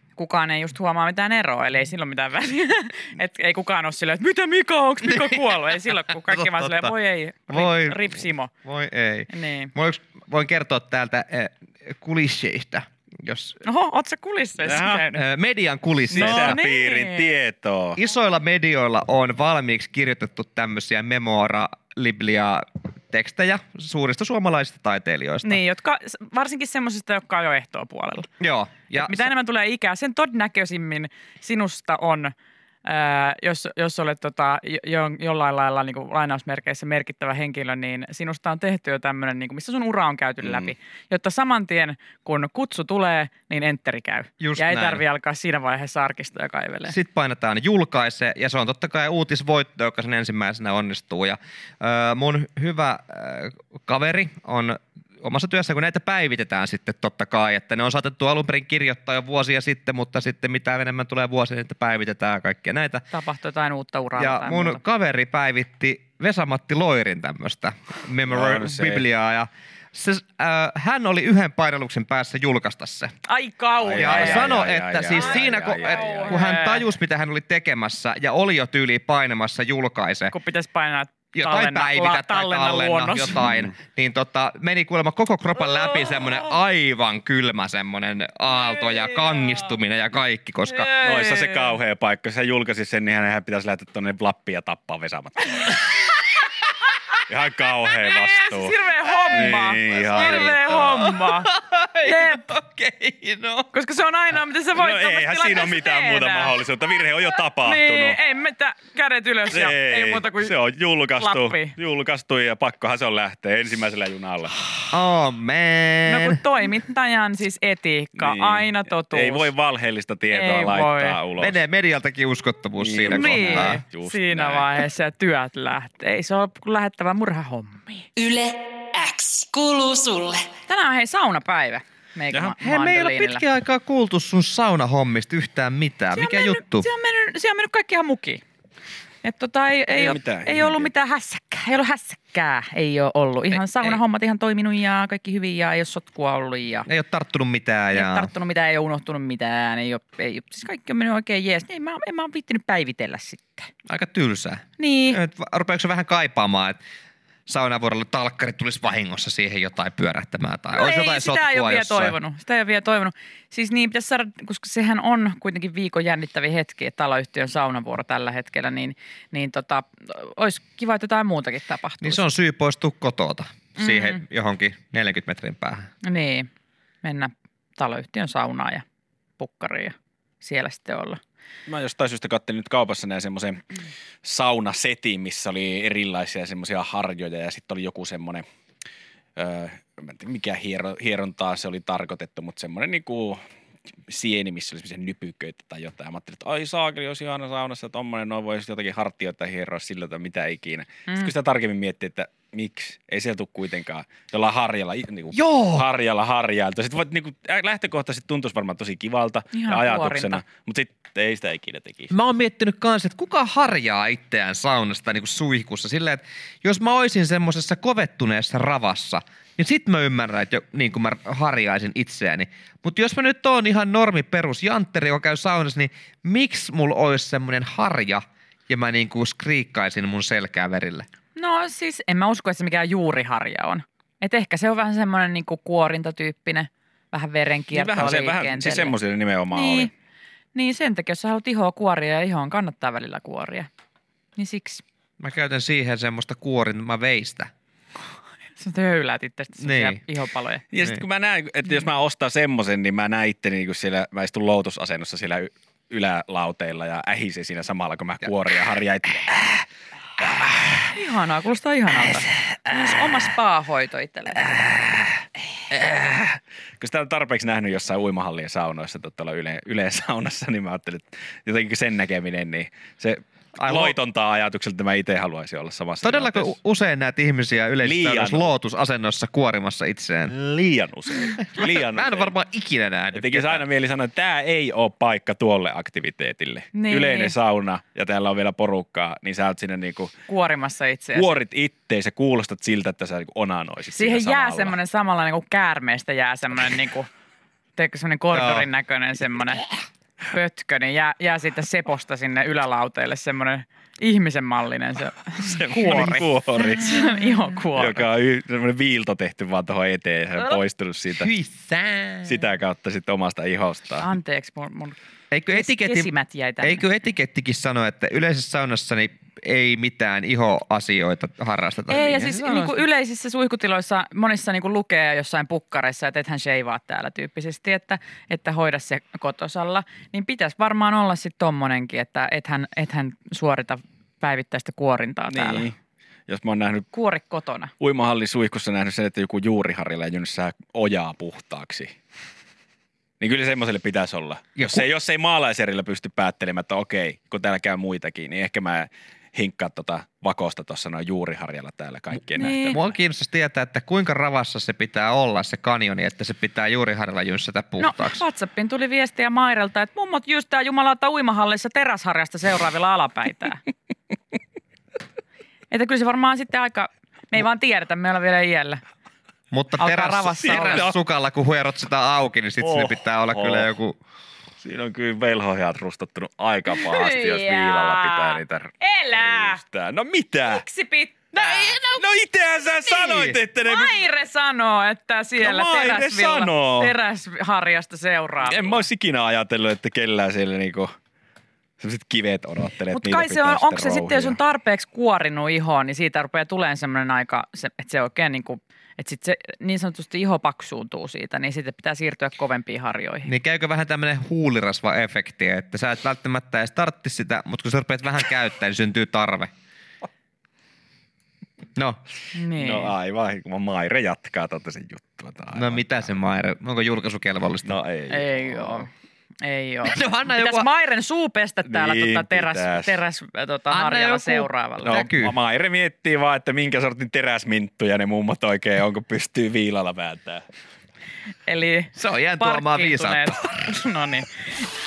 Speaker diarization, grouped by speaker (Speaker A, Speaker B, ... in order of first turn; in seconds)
Speaker A: 0.2-8.5, 9.3-9.7, 13.6-15.2, 16.1-17.3, 25.4-28.3, 28.9-32.3, 32.8-47.0, 63.1-64.8, 73.3-74.5, 75.1-76.9, 80.3-83.5, 90.7-91.7, 98.0-101.5, 102.0-102.5, 103.7-106.5, 107.6-110.5, 111.2-111.7, 116.1-119.5, 120.3-121.2, 123.0-128.1, 130.7-133.4, 136.1-138.4, 139.2-146.9, 147.9-153.7, 154.8-155.2, 160.7-172.2, 173.8-174.2, 176.0-176.5, 177.0-178.8, 179.4-181.2, 201.1-201.3, 209.5-210.4, 231.3-238.9, 239.5-239.9, 240.5-243.7, 244.4-244.8, 248.6-250.6, 260.9-264.6, 286.7-287.3, 290.3-291.4, 293.9-297.1, 297.8-299.6, 300.3-308.0, 314.0-315.0, 315.5-316.8, 321.9-335.7, 336.9-337.7, 352.4-352.8, 357.8-363.6, 365.7-368.8, 369.8-370.9, 376.7-379.6, 380.4-381.8, 383.6-388.9, 392.9-403.3, 412.3-412.9, 418.1-418.9, 419.4-425.0, 431.4-434.3
Speaker B: 6.3-6.9, 7.5-13.6, 15.1-16.6, 18.0-25.6, 28.4-29.3, 44.4-45.0, 46.9-63.0, 64.2-73.1, 74.0-80.3, 81.3-90.9, 99.9-103.7, 114.9-116.4, 121.4-123.8, 132.6-136.9, 146.9-148.3, 153.8-156.8, 157.5-162.2, 172.0-175.9, 205.3-205.8, 212.1-231.1, 245.2-247.5, 249.6-250.0, 273.6-274.0, 276.0-280.3, 281.4-283.6, 298.3-298.6, 311.2-312.4, 315.3-316.1, 316.6-322.3, 344.6-344.9, 352.7-358.2, 369.5-374.0, 382.9-383.4, 403.2-409.5, 415.6-417.7, 419.8-420.7, 423.7-425.3, 431.9-433.4
Speaker C: 14.6-15.0, 16.1-18.0, 68.2-69.0, 73.8-76.3, 83.3-83.7, 91.0-95.8, 97.3-98.8, 99.3-101.2, 104.7-108.2, 109.5-114.6, 118.2-121.6, 122.8-124.7, 139.9-140.9, 181.7-183.6, 184.2-188.4, 189.3-193.4, 194.1-212.1, 237.7-239.9, 250.7-259.4, 260.2-260.5, 265.7-276.6, 277.8-278.5, 280.3-282.3, 283.1-290.1, 291.1-294.8, 305.4-307.1, 307.7-311.3, 312.2-314.1, 322.1-322.8, 335.3-335.8, 336.3-336.9, 337.8-341.9, 343.2-352.8, 370.4-370.9, 372.6-373.7, 374.6-380.6, 381.3-384.1, 385.4-386.9, 388.4-390.9, 391.8-394.4, 412.6-416.1, 417.6-418.8, 421.6-423.0, 424.8-430.4
Speaker D: 128.2-130.5